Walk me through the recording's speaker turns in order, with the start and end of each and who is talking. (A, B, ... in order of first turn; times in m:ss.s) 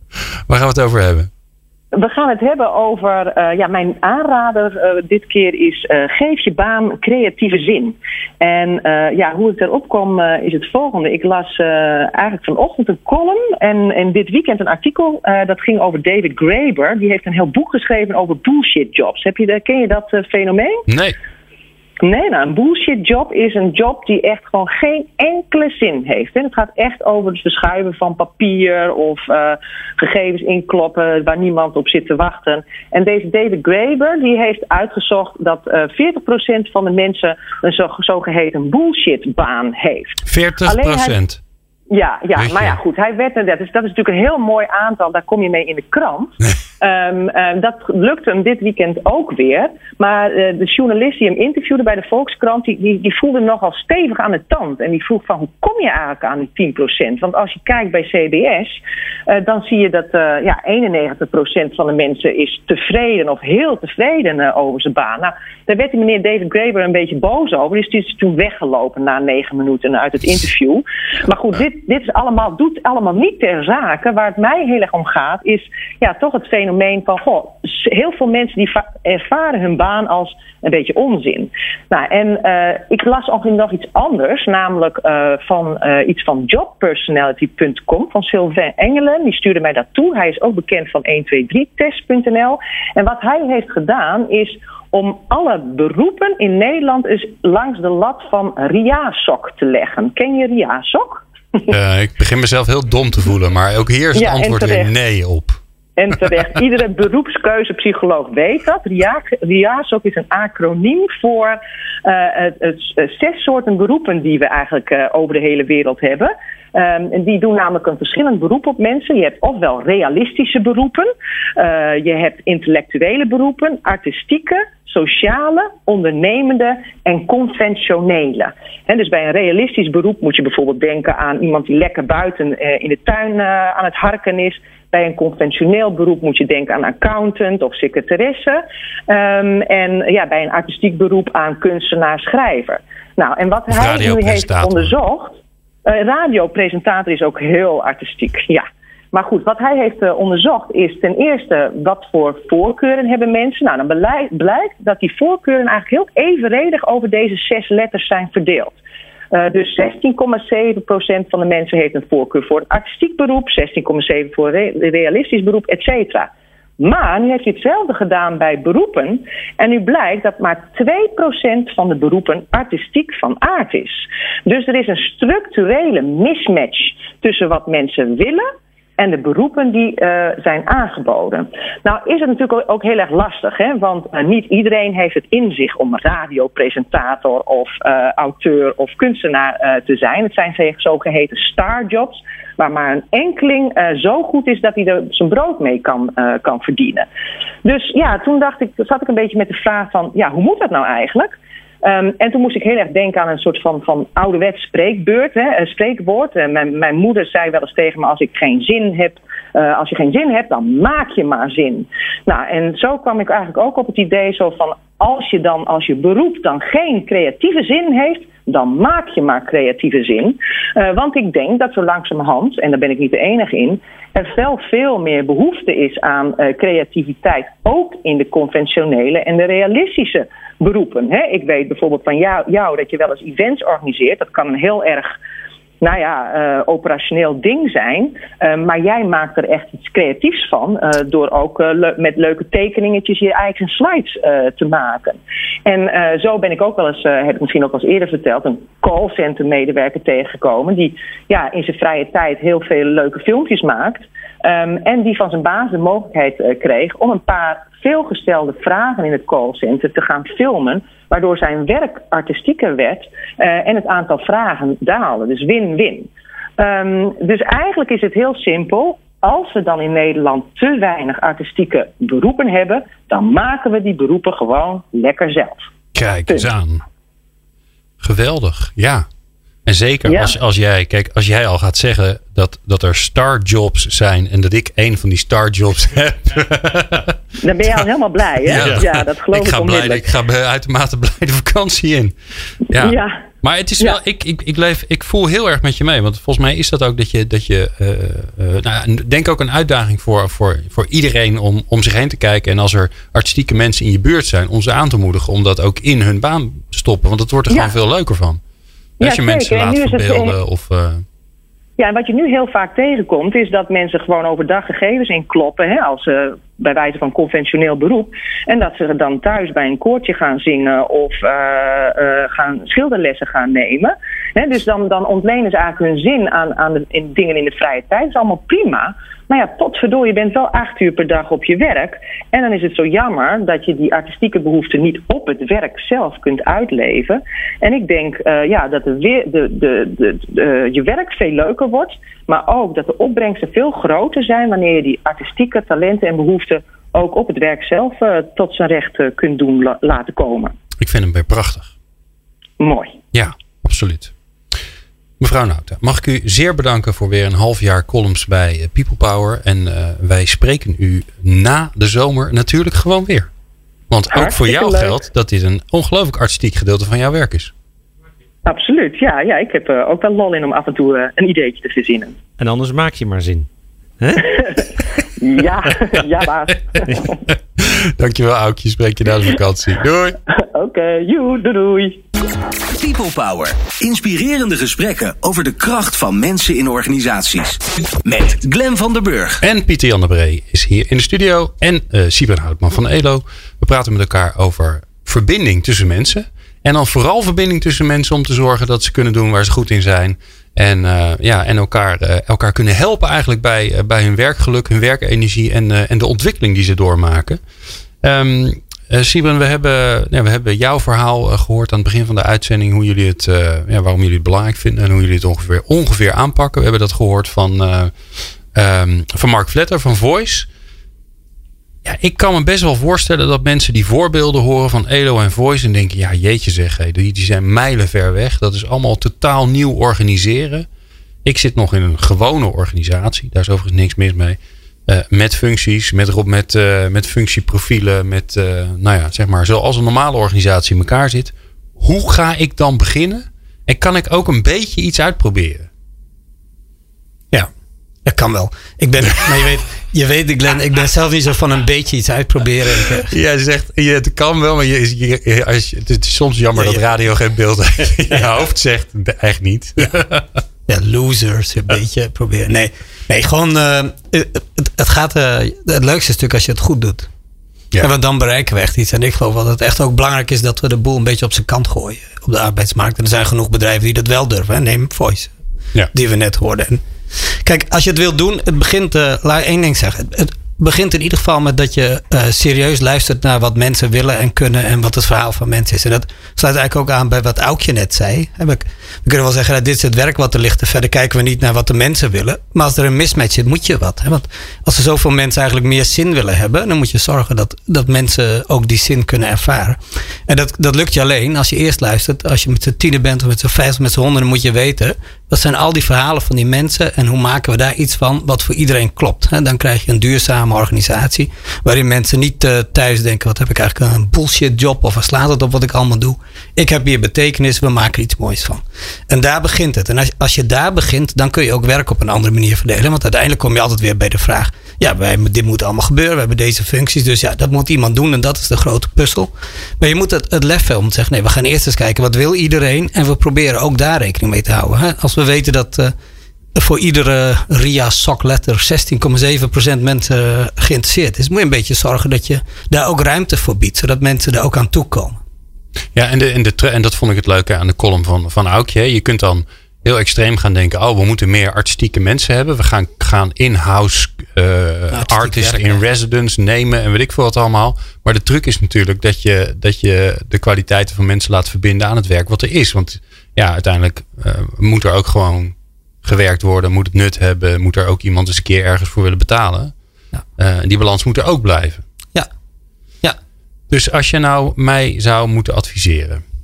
0:00.5-0:01.3 A
0:01.9-0:20.8 B
0:20.9-0:21.2 A
0:22.0-0:41.2 B
0:40.3-0:41.4 A
0:41.9-1:41.7 B
0:42.4-0:42.8 A
1:41.7-1:45.6 A
1:44.2-1:44.9 B
1:46.0-2:38.8 B
2:23.7-2:24.9 A
2:39.3-2:58.5 B
2:59.0-3:17.1 B
3:17.6-3:55.2 B
3:55.8-4:35.7 B
4:36.0-4:36.8 A
4:38.0-4:39.1 A
4:39.7-4:47.2 A
4:40.1-4:40.4 B
4:47.4-4:50.1 B
4:48.5-4:52.1 A
4:48.6-4:48.8 C
4:52.7-5:08.4 A
4:52.7-4:53.2 B
5:07.5-5:07.8 B
5:09.0-5:10.4 B
5:09.0-5:11.0 A
5:11.8-5:50.5 B
5:50.8-5:51.7 A
5:52.6-5:53.0 B
5:53.1-5:54.1 A
5:55.2-6:03.3 A
6:03.9-6:07.5 A
6:04.1-6:05.0 B
6:08.5-6:12.2 B
6:12.4-6:13.5 C
6:14.0-6:14.6 C
6:14.2-6:14.7 B
6:15.2-6:17.2 B
6:17.6-6:20.2 A
6:20.4-6:22.0 B
6:22.7-6:29.4 D
6:29.4-6:47.4 A
6:48.0-6:57.9 A
6:58.5-7:00.5 A
7:01.8-7:10.7 A
7:11.2-7:25.7 A
7:28.0-7:33.1 E
7:33.1-7:40.3 A
7:36.6-7:36.8 E
7:40.7-7:47.1 E
7:47.8-7:55.3 E
7:55.9-8:55.9 E
8:56.6-9:05.2 E
9:06.0-9:29.7 A
9:14.9-9:15.8 E
9:30.4-9:31.8 A
9:33.7-9:36.2 A